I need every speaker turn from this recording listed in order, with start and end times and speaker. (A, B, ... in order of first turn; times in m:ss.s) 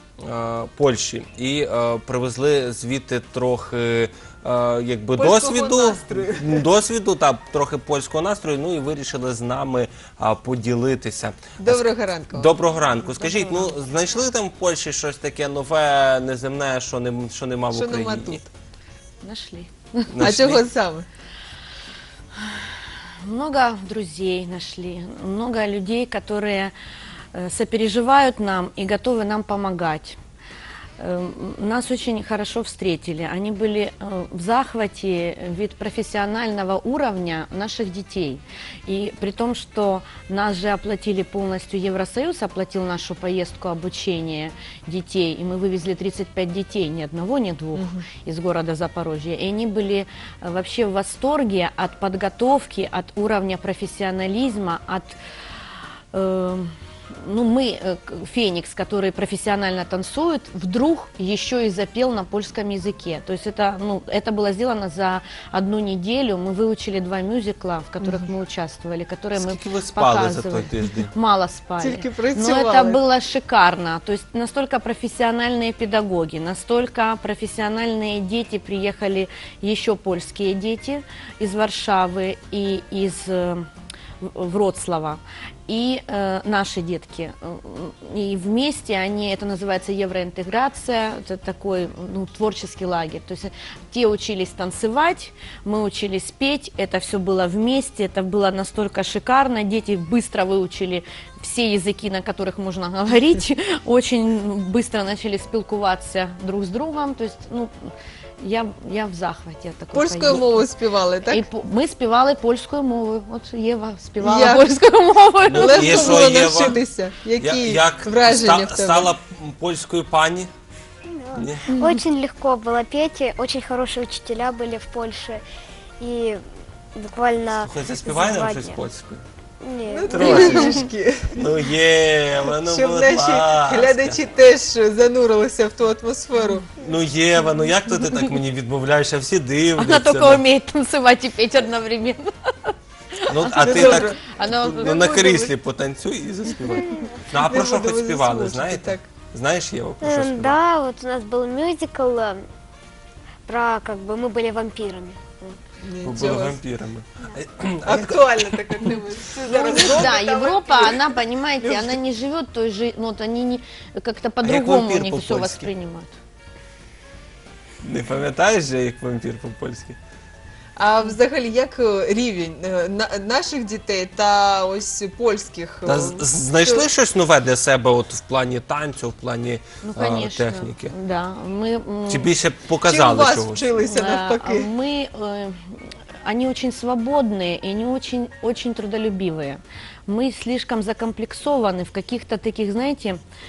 0:00.2-0:18.4 A
0:05.2-0:06.6 B
0:11.8-0:12.5 B
0:13.0-0:13.7 C
0:17.8-0:18.5 B
0:19.2-0:20.4 C
0:20.1-0:20.7 A
0:20.2-0:21.0 B
0:22.4-0:26.7 C
0:27.3-0:30.2 C
0:31.0-0:55.2 C
0:56.1-1:23.7 C
1:09.4-1:11.1 A
1:11.8-1:13.0 B
1:24.2-1:50.7 C
1:50.0-1:51.4 B
1:51.2-1:56.7 C
1:54.2-1:54.6 B
1:55.4-1:56.8 A
1:55.7-1:59.1 B
1:57.4-2:00.5 A
2:01.1-2:05.4 D
2:01.3-2:01.7 A
2:06.0-2:06.4 D
2:07.0-2:08.8 D
2:07.6-2:09.2 A
2:09.6-2:10.9 D
2:09.9-2:11.5 B
2:10.1-2:10.8 A
2:10.2-2:10.7 C
2:11.4-2:14.2 A
2:12.7-2:16.7 B
2:16.8-2:20.4 A
2:19.8-2:25.1 C
2:23.3-2:30.6 A
2:23.6-2:25.5 B
2:26.7-2:27.8 D
2:27.8-2:29.0 B
2:30.0-2:32.4 D
2:33.5-2:35.6 D
2:35.8-2:36.6 B
2:36.0-2:38.9 A
2:37.9-2:41.0 B
2:39.4-2:46.2 C
2:39.8-2:40.1 A
2:44.4-2:45.7 A
2:47.8-2:50.0 A
2:50.8-2:56.8 B
2:55.8-3:00.9 A
2:59.8-3:02.3 C
3:02.1-3:03.7 A
3:02.9-3:04.6 B
3:03.8-3:13.2 C